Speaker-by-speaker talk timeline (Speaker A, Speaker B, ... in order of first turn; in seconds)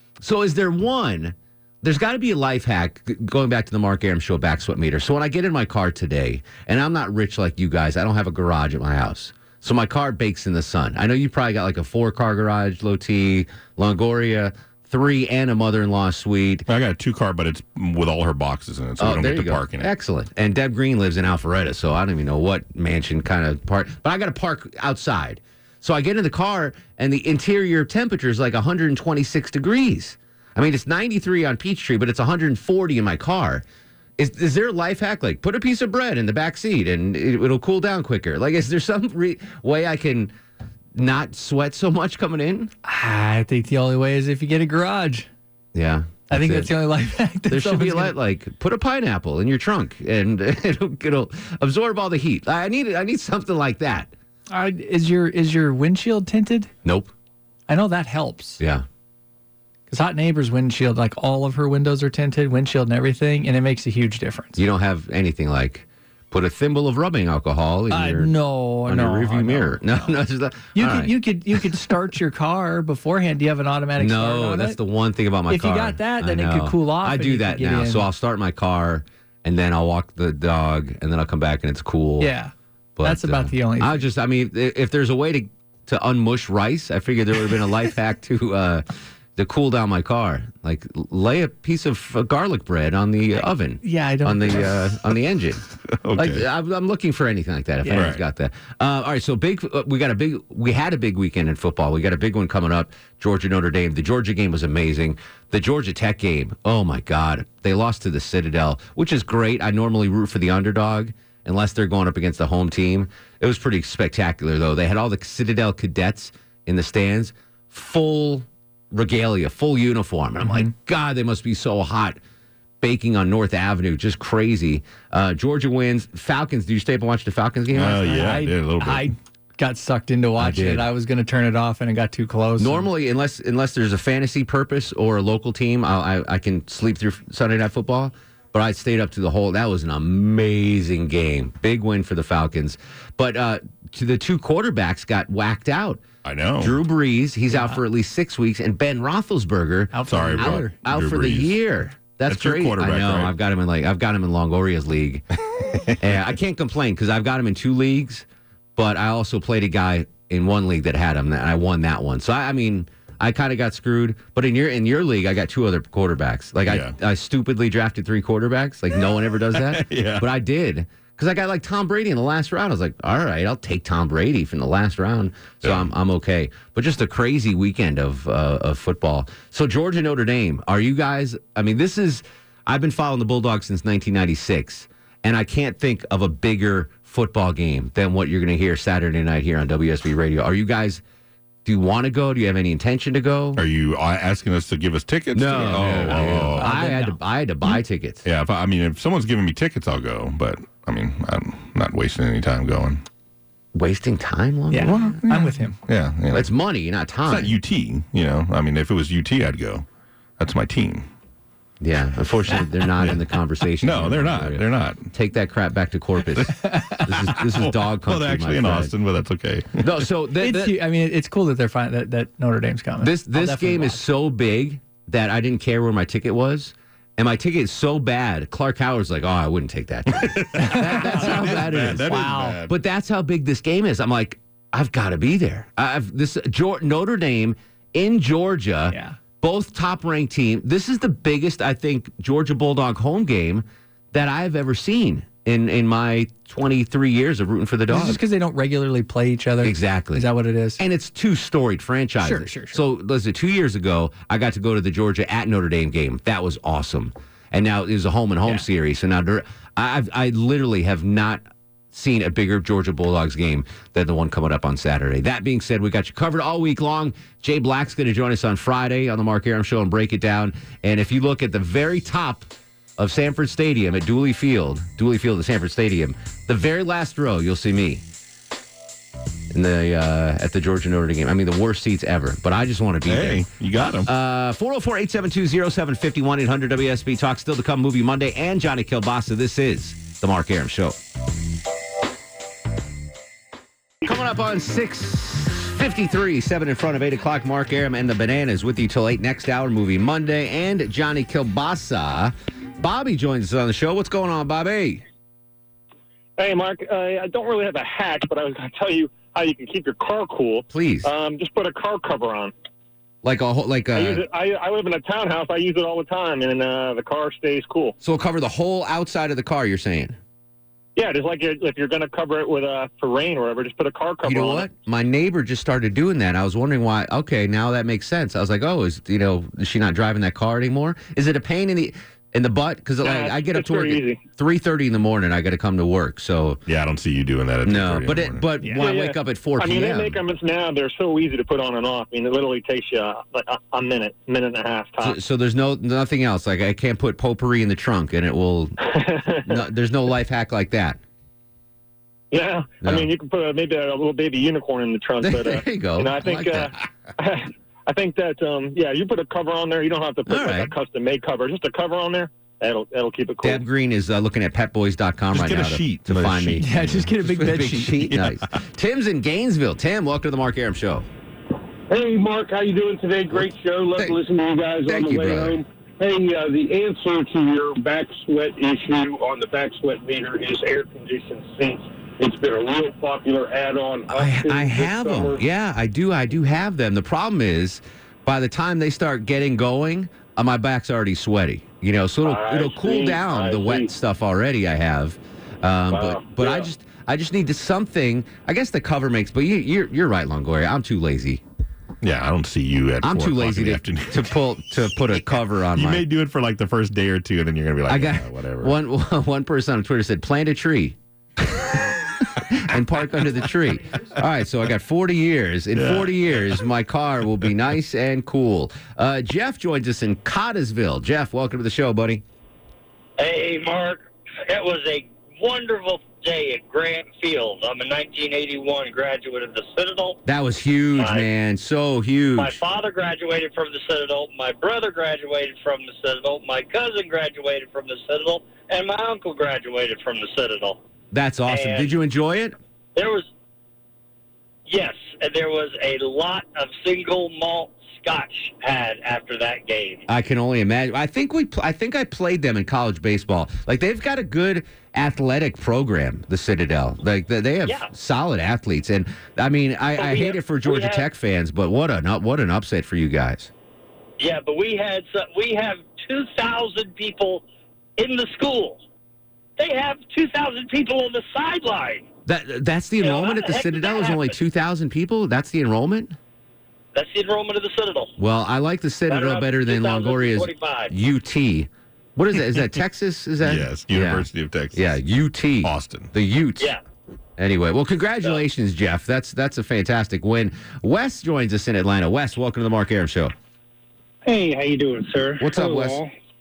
Speaker A: 0.2-16.7, 19.0-33.6, 34.2-40.3, 41.0-42.7, 45.7-46.7, 47.5-54.1, 56.8-57.1, 58.6-58.8, 64.6-68.3, 68.8-71.1, 74.0-82.3, 83.0-88.8, 89.4-95.6, 96.2-122.2, 122.8-128.3, 130.4-130.8, 132.6-146.0, 146.6-155.2, 156.0-158.2, 158.8-191.0, 191.7-193.6, 195.3-198.2, 203.8-205.2, 206.3-207.6, 211.8-218.9, 219.8-220.8, 223.0-248.2, 249.6-250.3, 250.8-278.0, 279.5-283.5, 284.1-291.0, 294.1-305.0, 310.7-311.1, 313.2-314.2, 318.0-320.2, 324.2-336.6, 337.6-340.2, 345.0-348.8, 349.4-351.0, 352.8-353.1, 355.2-356.8, 360.3-360.7, 363.4-371.1, 374.9-375.6, 384.1-401.4, 403.0-406.1, 407.9-411.0, 412.5-422.2, 430.2-432.6, 441.1-442.6, 450.1-463.5, 472.3-476.1, 478.2-486.8, 487.4-493.3, 495.4-496.0
Speaker B: 16.7-19.9, 96.0-96.5, 97.9-98.2, 127.7-129.1, 146.2-146.8, 150.1-151.6, 152.3-153.3, 166.7-167.0, 169.5-170.3, 175.6-175.9, 193.6-196.7, 198.2-203.0, 205.2-206.5, 207.3-209.9, 210.4-211.1, 213.0-213.2, 213.8-215.1, 217.2-220.0, 230.2-232.7, 283.1-284.1, 336.7-338.7, 365.3-367.1, 368.1-368.4, 402.0-404.3, 405.1-408.8, 415.8-416.6, 483.4-484.9, 485.6-486.1
Speaker C: 42.9-45.3, 46.3-48.2, 54.5-56.7, 57.7-58.6, 59.9-64.6, 67.9-70.2, 70.7-74.8, 75.5-78.1, 82.2-84.1, 93.8-94.9, 97.9-98.1, 120.4-120.7, 128.0-132.9, 147.5-147.8, 149.9-150.8, 195.8-197.8, 204.7-205.8, 216.5-217.0, 220.4-224.0, 230.6-232.6, 238.9-239.2, 247.9-250.8, 252.2-252.8, 366.6-368.1
Speaker D: 306.4-312.5, 313.9-318.0, 321.0-324.7, 333.0-334.2, 338.8-345.2, 348.8-349.6, 352.3-363.6
Speaker E: 371.9-385.4, 392.2-393.9, 395.9-396.6
Speaker F: 423.2-430.2, 431.0-431.3, 432.4-440.8, 441.5-441.9, 443.0-443.3, 444.7-450.1, 460.0-461.1, 464.2-467.4, 468.0-468.8, 469.6-472.1, 473.0-474.4, 476.9-478.1, 479.1-480.9, 494.3-496.1